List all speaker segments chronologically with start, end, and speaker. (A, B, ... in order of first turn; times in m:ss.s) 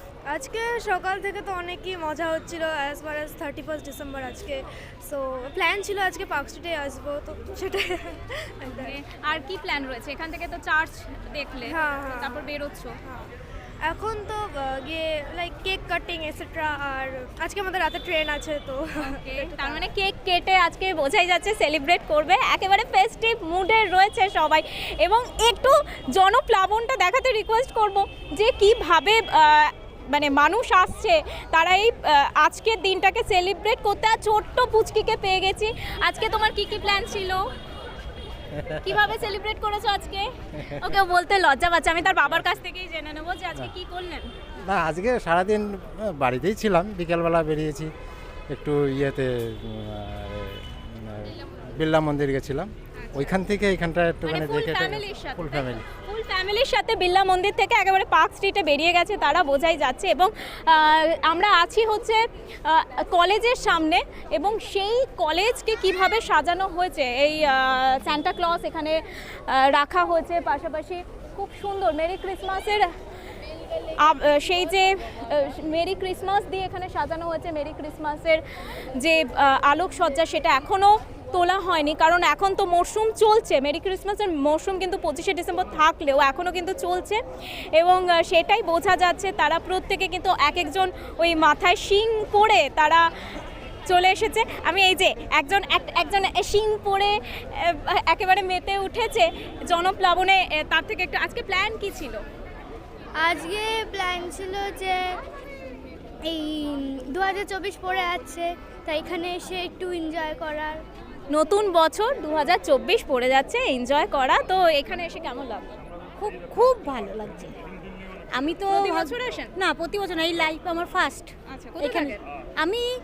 0:00.3-0:09.0 A
0:08.6-0:13.0 B
0:11.6-0:12.5 A
0:13.0-0:13.3 A
0:13.8-0:19.9 A
0:19.0-0:37.4 B
0:38.5-0:38.8 C
0:38.8-0:44.3 B
0:44.6-0:47.9 C
0:48.5-0:55.8 C
0:54.2-1:12.9 B
1:13.9-1:18.4 B
1:19.0-1:27.2 B
1:27.8-1:33.0 B
1:33.9-1:42.2 B
1:43.2-1:45.2 D
1:46.3-1:50.8 D
1:51.3-1:55.7 B
1:56.2-1:57.6 E
1:58.3-2:02.8 E
1:58.7-1:59.5 B
2:01.5-2:02.2 B